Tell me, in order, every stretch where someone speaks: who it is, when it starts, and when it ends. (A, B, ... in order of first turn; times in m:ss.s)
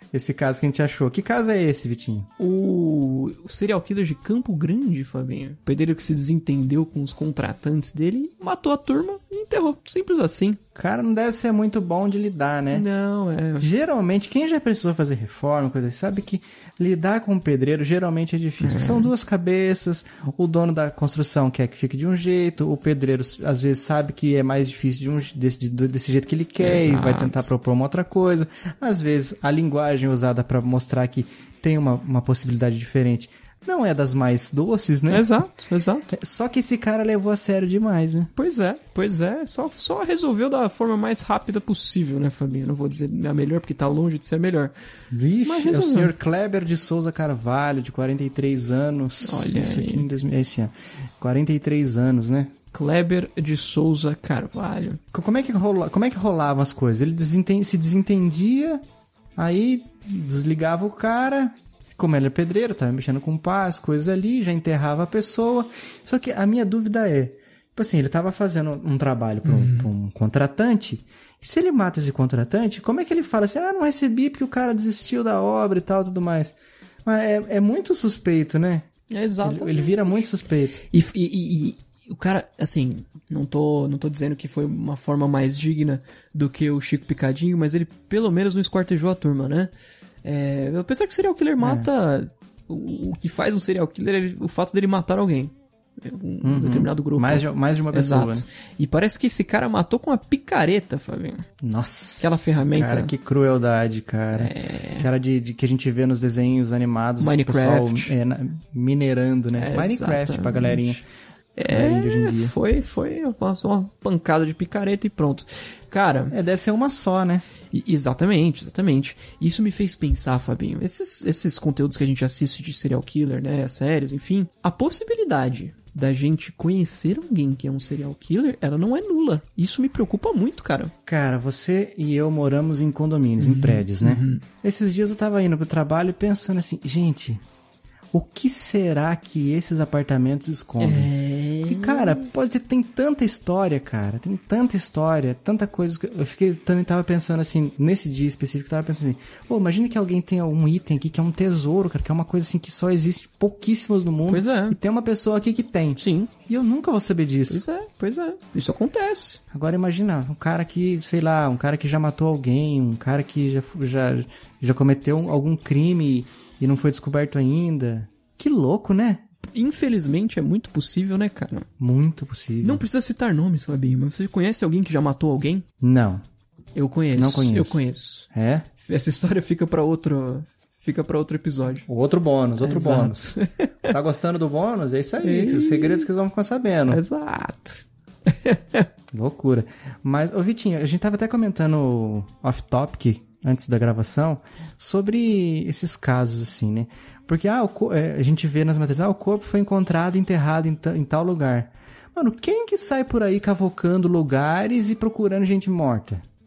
0:00.1-0:02.3 A
0:02.4-0:10.6 B
0:10.8-0:12.9 A
0:12.7-0:13.7 B
0:13.6-0:35.3 A
0:18.6-0:19.1 B
0:26.6-0:27.5 B
0:35.1-0:36.1 B
0:36.1-0:38.3 A
0:38.4-0:44.7 B
0:45.1-0:52.5 A
0:45.4-0:46.2 B
0:49.2-0:50.1 B
0:52.7-0:55.0 B
0:55.1-0:58.8 A
0:59.4-1:18.9 A
1:09.4-1:09.9 B
1:19.1-1:20.3 B
1:19.4-1:20.8 A
1:20.9-1:29.7 B
1:30.2-1:41.4 B
1:31.6-1:31.9 A
1:36.4-1:38.4 A
1:41.6-1:51.0 A
1:42.2-1:43.1 B
1:44.3-1:45.1 B
1:47.2-1:48.1 B
1:49.5-1:51.0 B
1:51.6-1:56.4 B
1:51.7-1:52.5 A
1:56.3-1:57.5 A
1:57.7-2:10.9 B
2:11.0-2:17.4 A
2:13.4-2:14.4 B
2:18.1-2:21.1 A
2:20.8-2:22.2 B
2:21.6-2:37.6 A
2:34.3-2:34.8 B
2:36.0-2:36.3 B
2:37.5-2:39.4 B
2:39.5-2:49.3 A
2:49.4-2:51.7 B
2:51.8-2:52.8 A
2:52.6-2:55.6 B
2:55.8-2:56.2 A
2:56.8-2:58.3 B
2:57.1-2:58.7 A
2:58.8-3:01.9 B
3:01.8-3:07.0 A
3:02.6-3:04.0 B
3:05.2-3:06.1 B
3:06.9-3:08.9 B
3:09.1-3:26.2 A